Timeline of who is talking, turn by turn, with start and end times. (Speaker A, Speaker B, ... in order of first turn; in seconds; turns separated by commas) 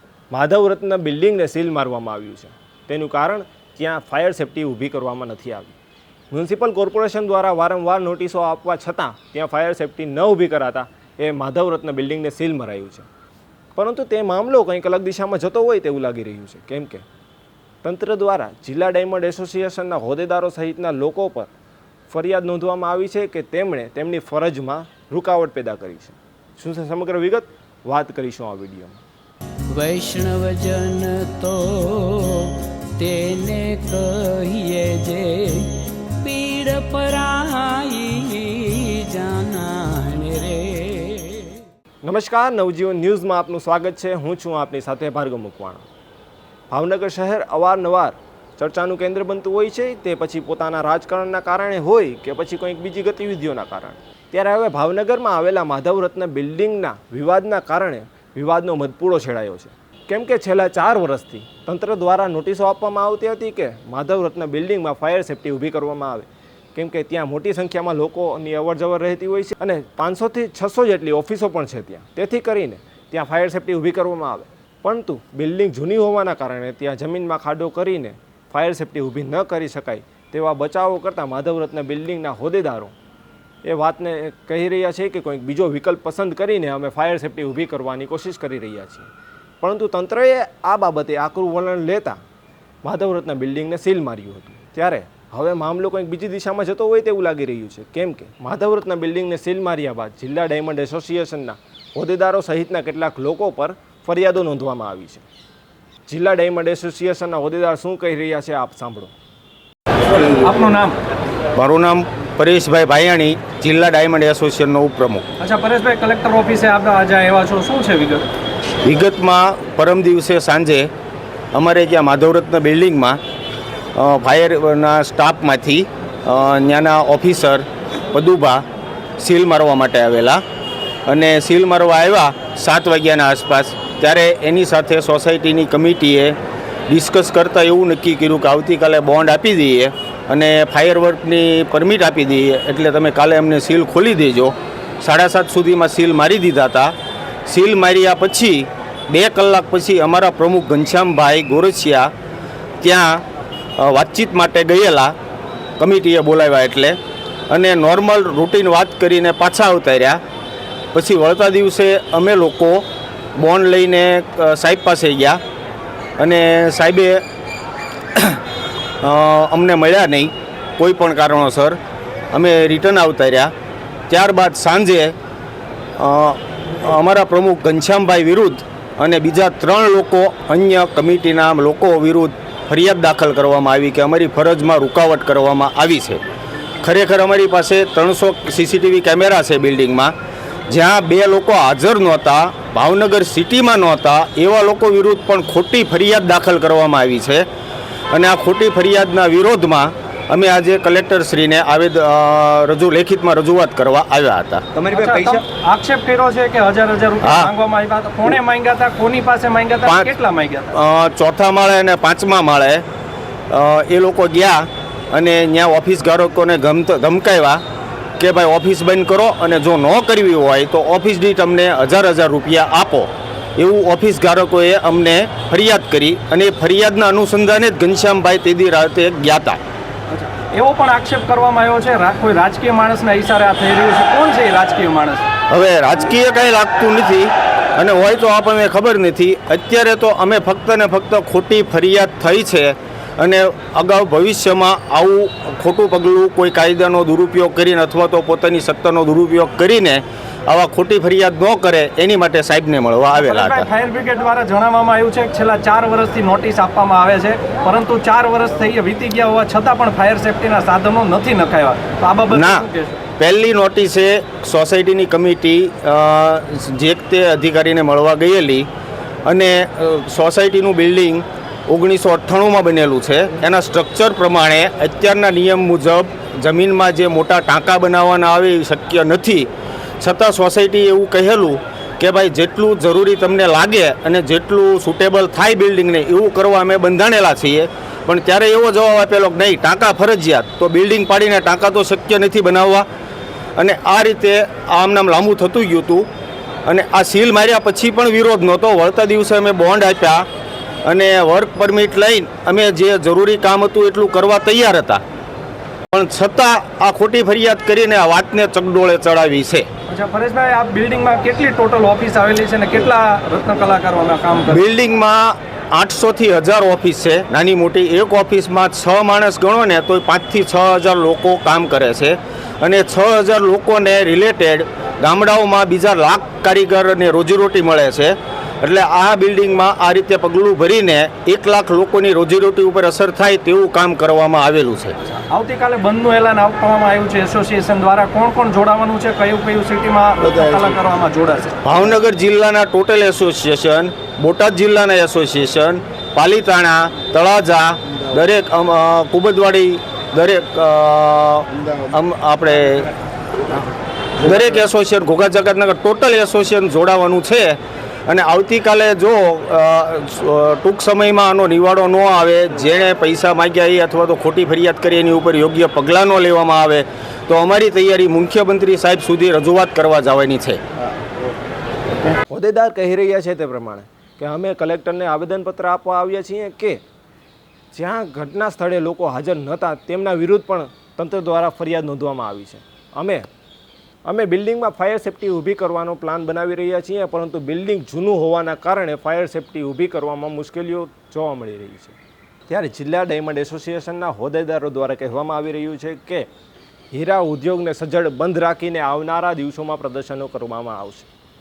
Speaker A: 0.3-5.8, Speaker A: 6.3-13.1, Speaker A: 13.7-17.0, Speaker A: 17.8-21.5, Speaker A: 22.1-29.0, Speaker B: 29.7-41.5, Speaker A: 42.0-45.8, Speaker A: 46.7-82.9, Speaker A: 83.6-89.1, Speaker A: 89.6-92.2, Speaker A: 92.8-105.2, Speaker A: 106.1-109.1, Speaker C: 110.3-111.0, Speaker D: 111.5-115.3, Speaker C: 115.4-118.2, Speaker D: 118.8-120.9, Speaker D: 121.5-123.2, Speaker D: 123.9-128.6, Speaker D: 129.2-130.4, Speaker D: 131.1-136.3, Speaker D: 136.9-146.9, Speaker D: 147.4-152.1, Speaker D: 152.8-153.2, Speaker D: 153.8-155.1, Speaker D: 155.8-157.0, Speaker D: 157.5-160.2, Speaker D: 160.9-165.4, Speaker D: 166.2-167.2, Speaker D: 168.1-168.4, Speaker D: 169.0-171.8, Speaker D: 172.3-173.5, Speaker D: 174.1-175.2, Speaker D: 176.0-186.2, Speaker D: 186.8-190.1, Speaker D: 190.7-197.4, Speaker D: 198.1-205.4, Speaker C: 204.9-210.7, Speaker D: 207.2-207.5, Speaker D: 210.7-212.8, Speaker D: 213.5-217.6, Speaker D: 218.2-229.6, Speaker C: 230.1-235.2, Speaker D: 235.5-253.7, Speaker C: 253.1-263.0, Speaker D: 262.3-262.6, Speaker D: 263.2-268.7, Speaker D: 269.2-279.5, Speaker D: 280.0-292.9, Speaker D: 293.6-296.1, Speaker D: 296.6-300.2, Speaker D: 300.9-305.0, Speaker D: 305.9-309.7, Speaker C: 309.9-314.6, Speaker D: 314.5-334.9, Speaker C: 335.3-341.6, Speaker D: 341.6-352.9, Speaker D: 354.2-370.6, Speaker A: 372.3-376.8, Speaker A: 377.7-383.3, Speaker A: 384.0-392.0, Speaker A: 392.5-396.3, Speaker A: 396.9-401.1